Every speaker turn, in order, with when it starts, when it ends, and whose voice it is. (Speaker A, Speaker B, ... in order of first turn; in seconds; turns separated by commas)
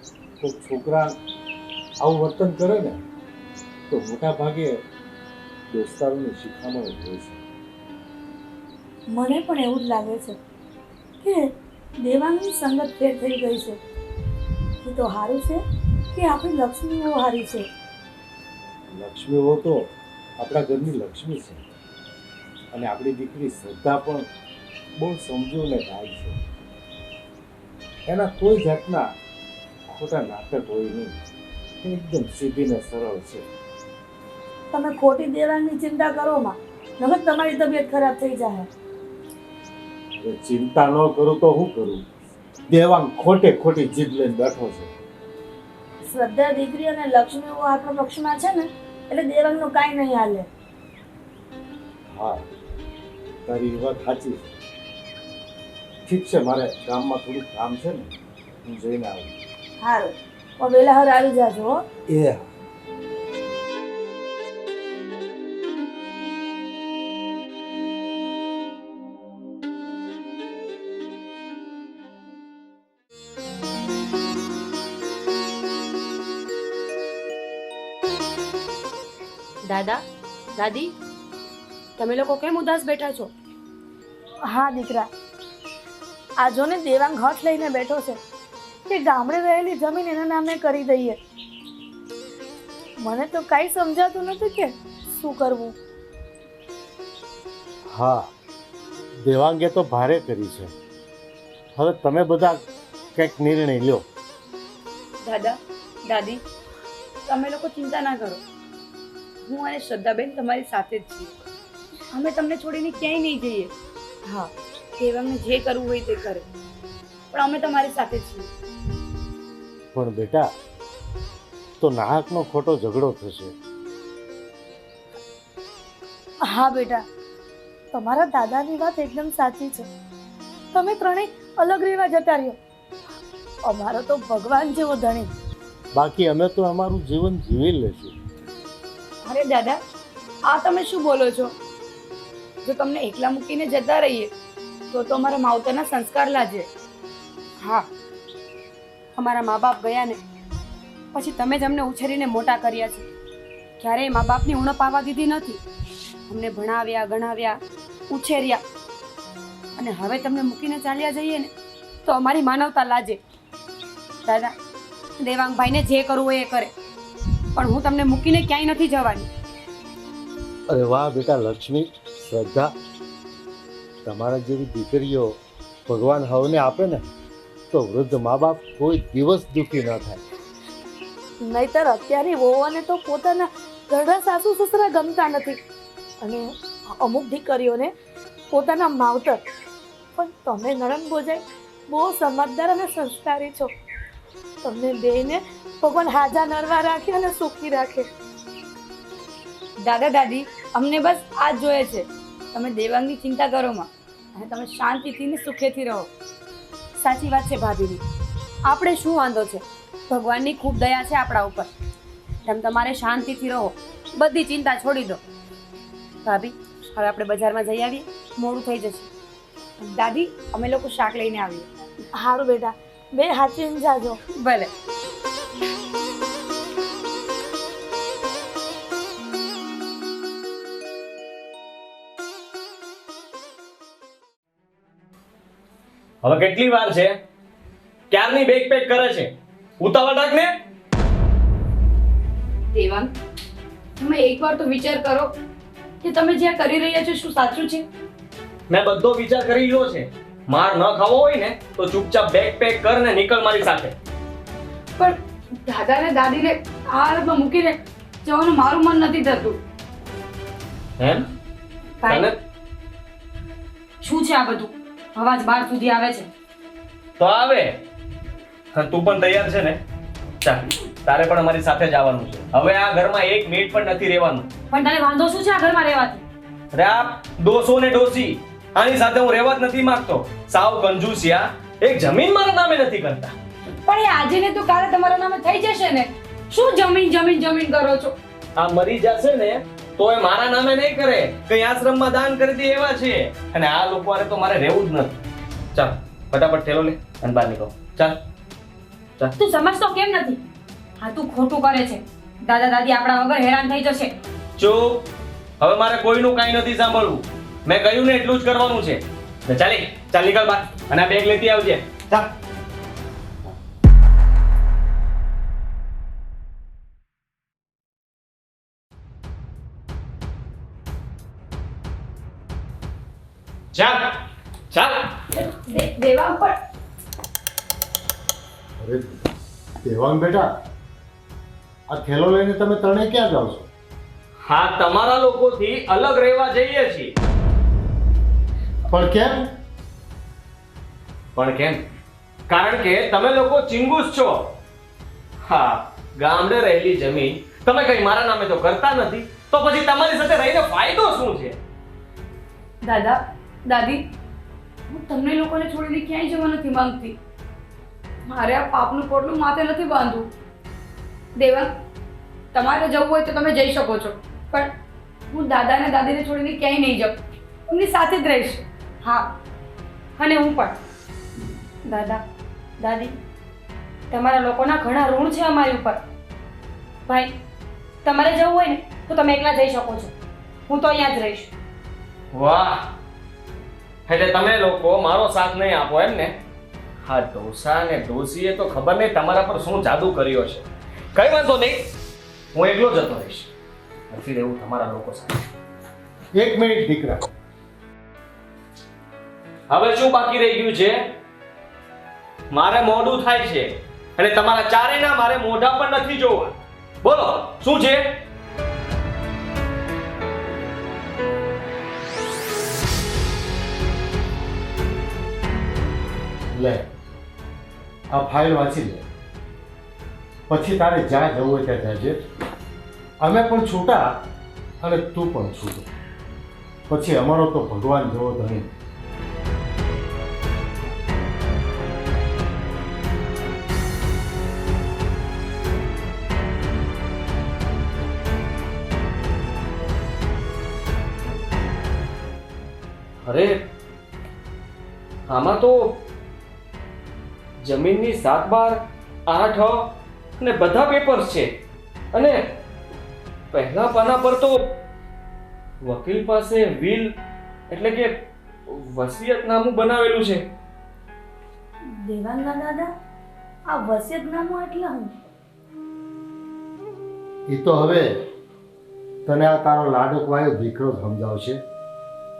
Speaker A: 0.4-1.1, Speaker A: 2.0-3.0, Speaker A: 3.9-4.8, Speaker A: 5.7-7.4, Speaker B: 9.1-10.4, Speaker B: 11.2-13.8, Speaker B: 14.8-15.6, Speaker B: 16.1-17.7, Speaker A: 18.9-19.9, Speaker A: 20.4-21.6, Speaker A: 22.7-24.3, Speaker A: 25.0-26.4, Speaker A: 28.1-29.1, Speaker A: 29.9-31.2, Speaker A: 31.8-33.5, Speaker B: 34.7-38.7, Speaker A: 40.2-42.0, Speaker A: 42.7-44.9, Speaker B: 46.0-50.5, Speaker A: 52.1-52.5, Speaker A: 53.5-54.6, Speaker A: 56.0-58.1, Speaker A: 58.6-59.3, Speaker B: 59.8-61.8, Speaker A: 62.1-62.5, Speaker C: 79.7-80.0, Speaker C: 80.6-80.9, Speaker C: 82.0-83.3, Speaker B: 84.5-85.1, Speaker B: 86.4-88.2, Speaker B: 88.9-91.2, Speaker B: 93.0-95.8, Speaker A: 97.9-98.3, Speaker A: 99.2-100.7, Speaker A: 101.8-102.6, Speaker A: 103.2-104.1, Speaker D: 105.2-106.4, Speaker D: 107.3-108.4, Speaker D: 109.5-111.4, Speaker D: 112.1-113.7, Speaker D: 115.0-116.5, Speaker D: 117.3-118.5, Speaker A: 119.9-120.5, Speaker A: 121.8-123.6, Speaker B: 126.5-127.0, Speaker B: 127.9-129.9, Speaker B: 130.7-132.6, Speaker B: 133.6-135.3, Speaker A: 135.9-138.2, Speaker D: 139.2-139.8, Speaker D: 140.5-141.5, Speaker D: 142.7-144.3, Speaker D: 144.9-146.7, Speaker C: 147.6-147.9, Speaker C: 149.2-150.2, Speaker C: 151.1-153.1, Speaker C: 153.8-155.6, Speaker C: 156.3-158.6, Speaker C: 159.8-161.5, Speaker C: 162.1-163.2, Speaker C: 164.2-164.5, Speaker C: 165.2-166.7, Speaker C: 167.6-169.3, Speaker A: 170.7-172.7, Speaker A: 174.0-177.0, Speaker A: 177.7-180.2, Speaker B: 181.4-185.6, Speaker B: 186.2-187.9, Speaker B: 188.5-189.4, Speaker B: 190.2-193.7, Speaker B: 194.6-198.1, Speaker D: 199.8-206.1, Speaker C: 207.0-208.0, Speaker C: 208.7-211.7, Speaker C: 212.4-215.2, Speaker C: 216.2-219.1, Speaker D: 219.8-221.7, Speaker B: 222.2-224.2, Speaker C: 224.4-224.7, Speaker E: 236.2-237.2, Speaker E: 238.1-240.5, Speaker D: 242.7-243.1, Speaker D: 244.0-245.4, Speaker D: 246.0-247.9, Speaker E: 248.7-253.9, Speaker D: 255.0-259.6, Speaker E: 261.0-261.3, Speaker C: 262.0-262.3, Speaker E: 262.1-262.4, Speaker C: 264.0-266.3, Speaker E: 267.2-267.8, Speaker E: 268.7-269.8, Speaker E: 270.4-274.5, Speaker C: 274.7-276.2, Speaker E: 276.7-283.3, Speaker D: 283.8-288.2, Speaker E: 288.6-295.2, Speaker E: 295.8-298.2, Speaker C: 299.4-300.4, Speaker C: 301.0-304.1, Speaker E: 304.6-305.1, Speaker E: 305.6-312.3, Speaker E: 323.7-324.2, Speaker E: 324.7-325.1, Speaker D: 325.3-326.6, Speaker A: 328.8-329.3, Speaker A: 329.8-330.5, Speaker A: 331.9-333.7, Speaker E: 334.4-337.1, Speaker A: 338.9-339.5, Speaker E: 341.4-341.8, Speaker E: 342.5-344.5, Speaker E: 345.4-351.6, Speaker D: 352.8-354.0, Speaker D: 354.9-357.2, Speaker D: 358.3-360.3, Speaker D: 361.4-361.7, Speaker D: 362.5-364.7, Speaker D: 365.3-368.6, Speaker C: 369.0-369.3, Speaker C: 370.2-370.8, Speaker C: 371.9-372.2, Speaker C: 372.8-373.1, Speaker C: 374.1-376.0, Speaker C: 377.1-377.3, Speaker C: 378.0-380.1, Speaker C: 380.7-381.5, Speaker E: 382.3-382.9, Speaker E: 384.1-386.4, Speaker E: 387.0-391.9, Speaker E: 392.5-393.5, Speaker E: 394.1-395.4, Speaker A: 396.4-397.3, Speaker E: 399.7-401.1, Speaker E: 402.5-408.2, Speaker A: 416.5-416.9, Speaker A: 418.1-419.1, Speaker A: 420.5-422.2, Speaker A: 423.2-424.2, Speaker A: 424.8-425.9, Speaker A: 426.9-428.7, Speaker E: 443.2-443.6, Speaker E: 445.3-446.1, Speaker E: 447.6-451.5, Speaker E: 452.1-452.4, Speaker E: 453.5-454.8, Speaker E: 455.8-457.1, Speaker E: 457.7-460.4, Speaker B: 462.0-462.9, Speaker B: 463.7-465.1, Speaker A: 467.5-468.2, Speaker A: 469.2-471.6